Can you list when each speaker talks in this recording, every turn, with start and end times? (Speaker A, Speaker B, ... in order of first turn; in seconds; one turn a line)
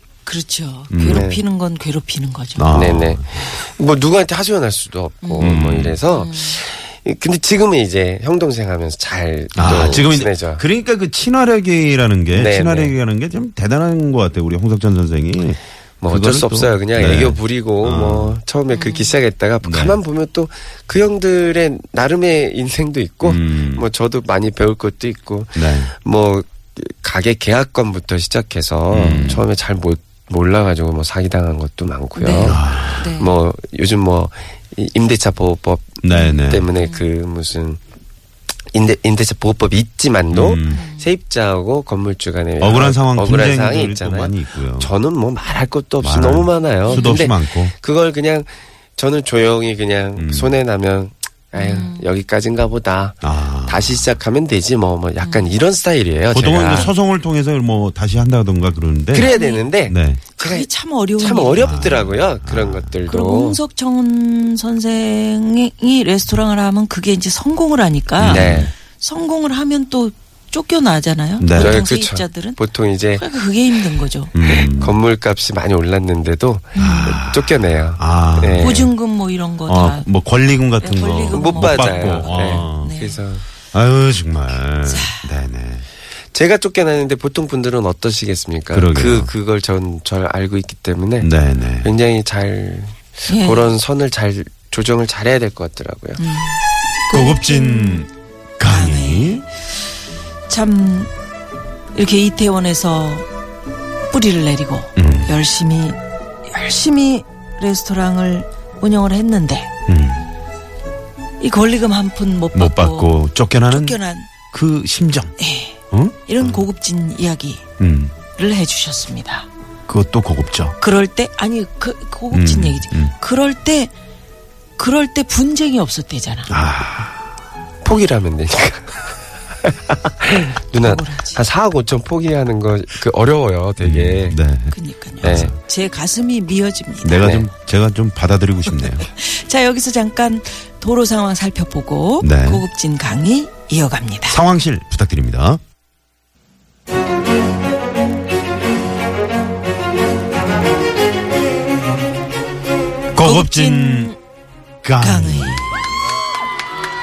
Speaker A: 0.2-2.7
Speaker B: 0.9-1.3
Speaker C: 1.0-1.4
Speaker B: 2.6-3.3
Speaker C: 2.7-10.6
Speaker A: 5.2-6.6
Speaker B: 5.4-6.0
Speaker B: 9.5-18.4
Speaker C: 12.3-12.9
Speaker C: 16.0-37.8
Speaker A: 18.7-19.1
Speaker B: 19.6-20.0
Speaker B: 23.2-23.9
Speaker B: 25.5-25.9
Speaker B: 28.9-29.4
Speaker A: 32.1-33.3
Speaker B: 32.4-33.1
Speaker B: 36.0-36.7
Speaker A: 36.1-37.0
Speaker C: 38.7-56.9
Speaker B: 40.3-40.8
Speaker A: 40.7-41.1
Speaker B: 42.6-44.9
Speaker B: 46.0-47.7
Speaker A: 46.9-47.3
Speaker B: 50.2-50.5
Speaker A: 51.5-52.1
Speaker B: 53.2-54.2
Speaker A: 55.2-55.5
Speaker B: 56.3-59.3
Speaker C: 59.1-60.7
Speaker A: 59.2-59.7
Speaker B: 59.9-60.2
Speaker A: 60.4-62.0
Speaker C: 61.2-63.6
Speaker B: 61.6-63.0
Speaker A: 63.1-72.6
Speaker B: 68.2-68.7
Speaker C: 68.3-68.7
Speaker B: 71.4-71.8
Speaker C: 71.5-73.2
Speaker A: 73.1-74.3
Speaker B: 74.3-75.0
Speaker C: 74.4-78.9
Speaker A: 76.7-77.2
Speaker B: 76.8-78.9
Speaker A: 78.6-80.1
Speaker B: 79.7-83.0
Speaker A: 80.8-83.2
Speaker C: 81.3-83.4
Speaker B: 83.7-85.8
Speaker A: 84.8-85.3
Speaker C: 86.3-91.3
Speaker B: 88.7-89.3
Speaker B: 91.2-91.9
Speaker C: 91.8-96.2
Speaker A: 93.3-93.7
Speaker A: 96.2-96.6
Speaker A: 97.1-98.1
Speaker B: 97.1-99.4
Speaker A: 98.6-99.6
Speaker A: 100.5-101.1
Speaker A: 101.9-103.3
Speaker A: 104.1-109.7
Speaker B: 105.0-105.3
Speaker B: 109.9-110.2
Speaker A: 111.4-113.1
Speaker B: 112.5-114.0
Speaker A: 113.7-114.3
Speaker B: 114.5-115.3
Speaker A: 115.4-117.6
Speaker B: 117.8-118.1
Speaker A: 118.3-119.5
Speaker B: 119.9-120.8
Speaker A: 120.8-123.9
Speaker B: 122.3-123.1
Speaker A: 124.8-126.5
Speaker B: 126.5-127.2
Speaker C: 127.8-134.4
Speaker A: 130.8-131.4
Speaker B: 133.8-135.6
Speaker A: 134.7-137.4
Speaker C: 135.2-135.5
Speaker B: 137.0-139.1
Speaker C: 137.2-137.5
Speaker A: 138.7-144.4
Speaker B: 142.2-142.6
Speaker B: 144.3-145.6
Speaker B: 153.1-154.1
Speaker A: 153.2-154.2
Speaker B: 154.8-155.7
Speaker A: 155.0-155.8